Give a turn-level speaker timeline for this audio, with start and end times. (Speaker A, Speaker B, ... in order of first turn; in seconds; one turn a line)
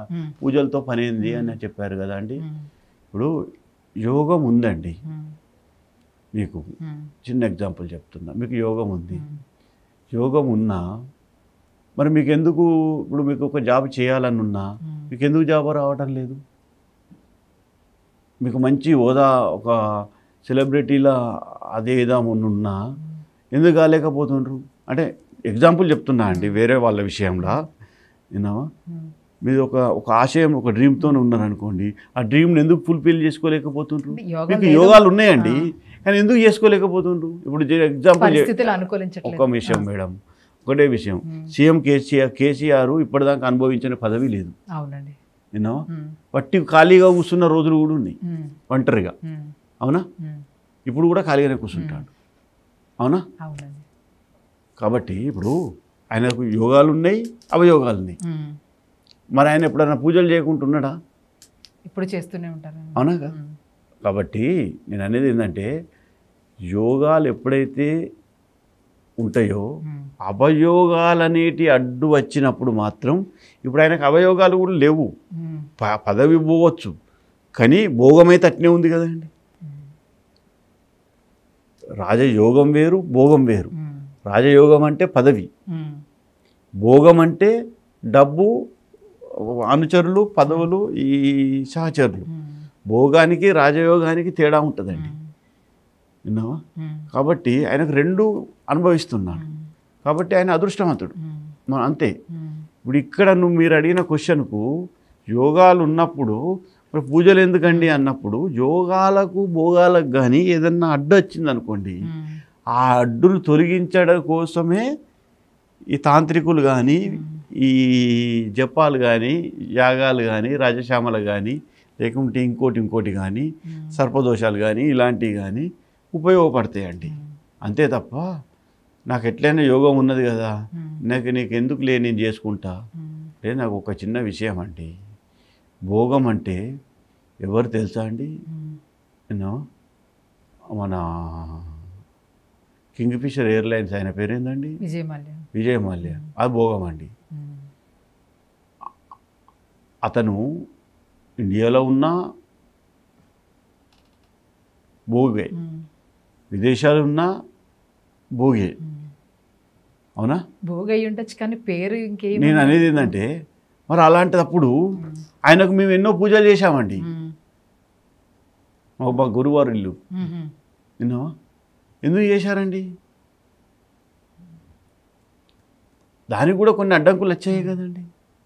Speaker A: 0.4-2.4
Speaker B: 1.2-1.6
Speaker A: 4.0-5.0
Speaker B: 5.1-5.3
Speaker A: 6.4-6.6
Speaker B: 6.8-7.1
Speaker A: 7.2-9.2
Speaker B: 9.1-9.4
Speaker A: 10.1-10.8
Speaker A: 12.0-16.4
Speaker B: 14.8-15.1
Speaker A: 18.4-19.8
Speaker A: 20.4-21.2
Speaker A: 21.7-22.8
Speaker A: 23.5-27.6
Speaker B: 26.3-26.6
Speaker A: 28.4-28.6
Speaker A: 29.5-38.5
Speaker B: 34.1-35.7
Speaker B: 38.2-39.9
Speaker A: 39.2-40.1
Speaker A: 40.6-44.5
Speaker B: 41.3-41.5
Speaker B: 44.8-45.2
Speaker A: 45.5-48.2
Speaker B: 45.9-46.2
Speaker B: 48.2-48.6
Speaker A: 48.7-49.1
Speaker B: 49.2-49.5
Speaker B: 50.2-50.5
Speaker A: 50.9-52.1
Speaker B: 51.8-52.1
Speaker B: 53.4-53.8
Speaker A: 54.8-55.6
Speaker A: 56.1-58.2
Speaker B: 58.2-58.6
Speaker A: 59.4-60.9
Speaker B: 61.9-63.6
Speaker A: 63.0-63.3
Speaker A: 64.0-65.7
Speaker A: 66.7-67.9
Speaker A: 69.2-69.7
Speaker B: 69.8-70.1
Speaker A: 70.2-75.1
Speaker B: 75.4-75.7
Speaker A: 75.8-76.9
Speaker A: 77.6-79.3
Speaker A: 82.0-83.7
Speaker B: 83.8-84.1
Speaker A: 84.3-85.5
Speaker B: 85.7-86.0
Speaker A: 86.8-87.5
Speaker A: 88.1-88.5
Speaker A: 89.4-92.3
Speaker B: 92.3-92.7
Speaker A: 92.9-95.1
Speaker B: 94.9-95.3
Speaker A: 96.3-96.6
Speaker B: 96.8-97.1
Speaker A: 97.1-99.4
Speaker B: 99.3-99.7
Speaker A: 100.0-101.1
Speaker B: 101.2-101.6
Speaker A: 101.7-102.1
Speaker B: 102.3-102.7
Speaker A: 102.8-104.6
Speaker A: 105.3-106.4
Speaker A: 106.9-112.0
Speaker B: 107.7-108.0
Speaker B: 112.0-112.4
Speaker A: 112.8-114.8
Speaker A: 115.9-127.1
Speaker B: 117.1-117.4
Speaker B: 123.7-124.0
Speaker B: 127.1-127.3
Speaker A: 127.7-128.2
Speaker A: 129.1-130.5
Speaker B: 130.8-131.0
Speaker A: 131.1-132.8
Speaker B: 133.0-133.3
Speaker A: 133.4-134.9
Speaker A: 135.9-136.6
Speaker A: 137.4-138.3
Speaker B: 138.5-138.8
Speaker A: 139.3-139.6
Speaker A: 140.8-141.8
Speaker A: 142.9-144.8
Speaker B: 144.8-145.4
Speaker A: 145.5-147.1
Speaker B: 147.3-147.7
Speaker A: 150.1-150.4
Speaker A: 151.4-152.1
Speaker A: 155.1-155.5
Speaker B: 155.6-155.8
Speaker A: 156.5-157.3
Speaker A: 158.4-158.8
Speaker B: 158.8-159.1
Speaker B: 160.7-163.1
Speaker A: 162.4-163.3
Speaker A: 163.9-164.7
Speaker A: 165.5-167.0
Speaker B: 167.0-167.3
Speaker A: 169.0-169.9
Speaker B: 170.2-170.5
Speaker A: 171.0-171.3
Speaker A: 172.1-172.8
Speaker A: 176.3-178.1
Speaker B: 177.5-177.8